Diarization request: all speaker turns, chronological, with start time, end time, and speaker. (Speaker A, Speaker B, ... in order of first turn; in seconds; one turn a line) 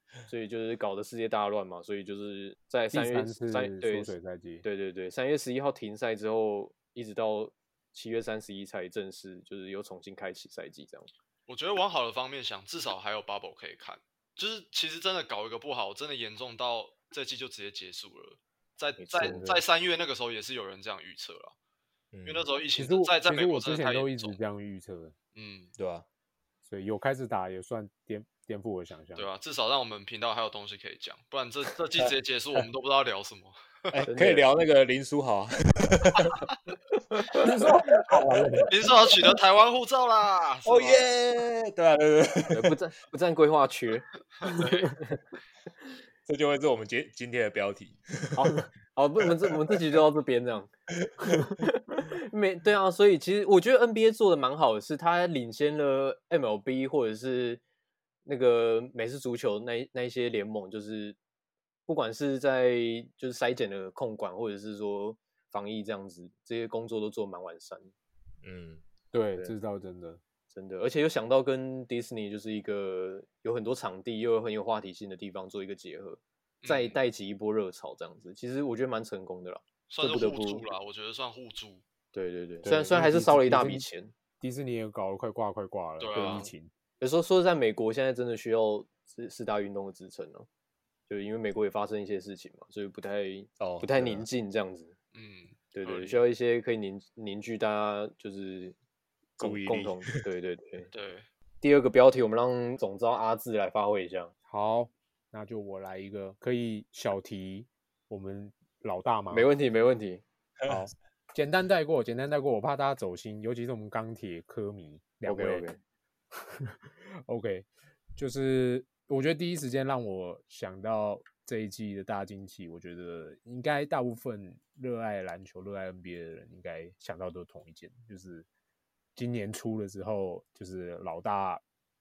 Speaker A: 0.3-4.1
Speaker B: 2.9-4.7
Speaker A: 4.6-11.1
Speaker C: 11.5-21.6
Speaker A: 19.0-19.5
Speaker B: 19.2-19.6
Speaker D: 22.1-22.5
Speaker C: 22.3-24.4
Speaker B: 22.8-25.1
Speaker C: 25.4-25.7
Speaker D: 25.8-26.1
Speaker B: 26.6-29.3
Speaker C: 29.2-33.9
Speaker D: 32.0-32.6
Speaker D: 33.9-36.4
Speaker A: 34.1-34.5
Speaker A: 37.2-37.4
Speaker B: 37.4-38.9
Speaker D: 38.0-38.6
Speaker C: 38.7-41.0
Speaker D: 40.6-42.8
Speaker A: 42.5-45.2
Speaker C: 44.4-44.9
Speaker D: 46.3-48.6
Speaker A: 48.4-50.7
Speaker D: 49.4-49.8
Speaker D: 51.0-51.5
Speaker A: 51.4-57.6
Speaker A: 58.2-61.2
Speaker A: 61.9-67.9
Speaker D: 68.4-68.8
Speaker B: 69.1-70.2
Speaker A: 70.5-80.6
Speaker C: 76.6-77.0
Speaker C: 79.9-81.8
Speaker A: 82.1-84.1
Speaker B: 82.6-83.9
Speaker B: 84.4-86.7
Speaker C: 86.0-86.5
Speaker A: 86.2-86.5
Speaker A: 87.0-90.5
Speaker A: 91.1-94.9
Speaker D: 93.6-94.3
Speaker C: 95.1-96.2
Speaker A: 95.7-98.8
Speaker A: 99.4-100.9
Speaker D: 99.4-100.2
Speaker C: 100.9-101.3
Speaker A: 101.6-104.3
Speaker B: 104.5-109.5
Speaker A: 109.3-110.2
Speaker B: 110.7-115.7
Speaker A: 115.3-115.8
Speaker B: 116.5-128.5
Speaker B: 129.2-131.6